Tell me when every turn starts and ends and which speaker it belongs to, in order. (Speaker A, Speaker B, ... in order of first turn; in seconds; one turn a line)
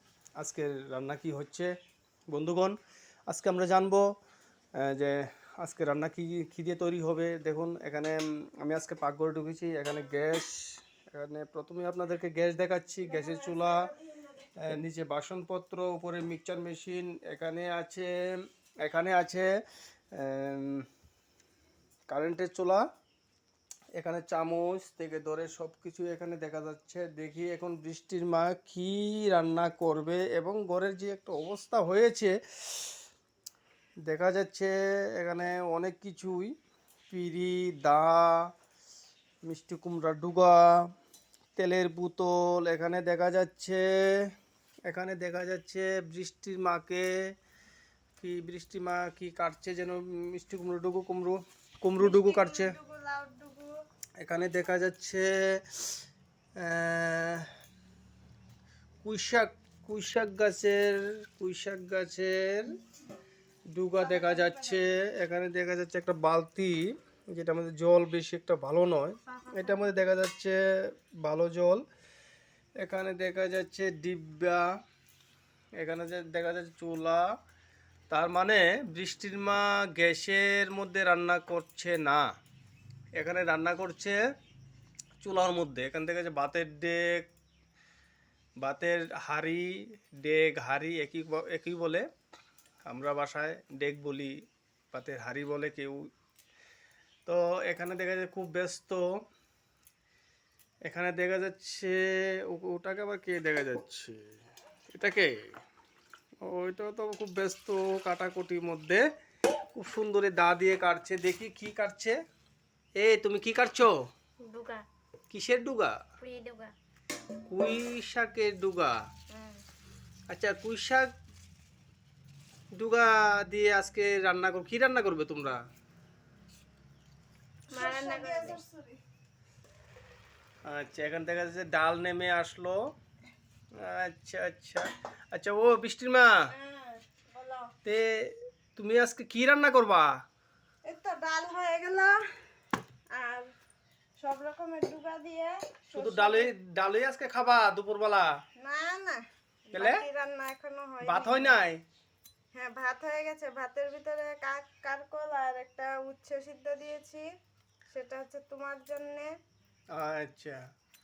Speaker A: 0.4-1.7
Speaker A: 2.3-2.8
Speaker A: 3.3-4.0
Speaker A: 4.8-13.9
Speaker B: 13.0-14.6
Speaker A: 14.6-18.1
Speaker A: 18.8-19.5
Speaker A: 20.1-20.9
Speaker A: 22.1-22.8
Speaker A: 23.9-32.4
Speaker A: 34.0-36.5
Speaker A: 37.1-38.5
Speaker A: 39.4-40.8
Speaker A: 41.5-44.3
Speaker A: 44.9-47.1
Speaker A: 48.2-52.8
Speaker B: 52.0-53.7
Speaker A: 54.2-55.8
Speaker A: 56.6-57.5
Speaker A: 59.0-62.7
Speaker A: 63.7-70.6
Speaker B: 64.0-64.8
Speaker B: 69.3-70.0
Speaker A: 71.2-71.8
Speaker A: 72.8-74.7
Speaker A: 75.8-77.2
Speaker A: 78.1-82.3
Speaker A: 83.2-84.2
Speaker A: 85.2-87.3
Speaker A: 88.6-92.0
Speaker A: 92.8-94.3
Speaker A: 94.9-96.1
Speaker A: 97.2-99.0
Speaker A: 100.8-104.2
Speaker A: 104.9-105.5
Speaker A: 106.4-109.0
Speaker A: 109.7-112.2
Speaker A: 113.0-113.9
Speaker C: 114.4-114.8
Speaker A: 115.3-116.0
Speaker C: 116.2-116.7
Speaker A: 117.5-119.0
Speaker A: 120.3-121.1
Speaker A: 122.8-125.6
Speaker C: 127.7-128.6
Speaker B: 127.7-129.0
Speaker A: 130.6-132.8
Speaker A: 133.8-136.4
Speaker B: 136.5-137.7
Speaker A: 137.8-140.1
Speaker B: 140.8-142.2
Speaker B: 143.1-143.5
Speaker B: 144.2-146.5
Speaker A: 145.9-148.3
Speaker B: 148.6-151.6
Speaker A: 149.7-150.0
Speaker A: 151.0-151.8
Speaker B: 152.5-157.2
Speaker B: 157.9-159.3
Speaker A: 159.9-160.6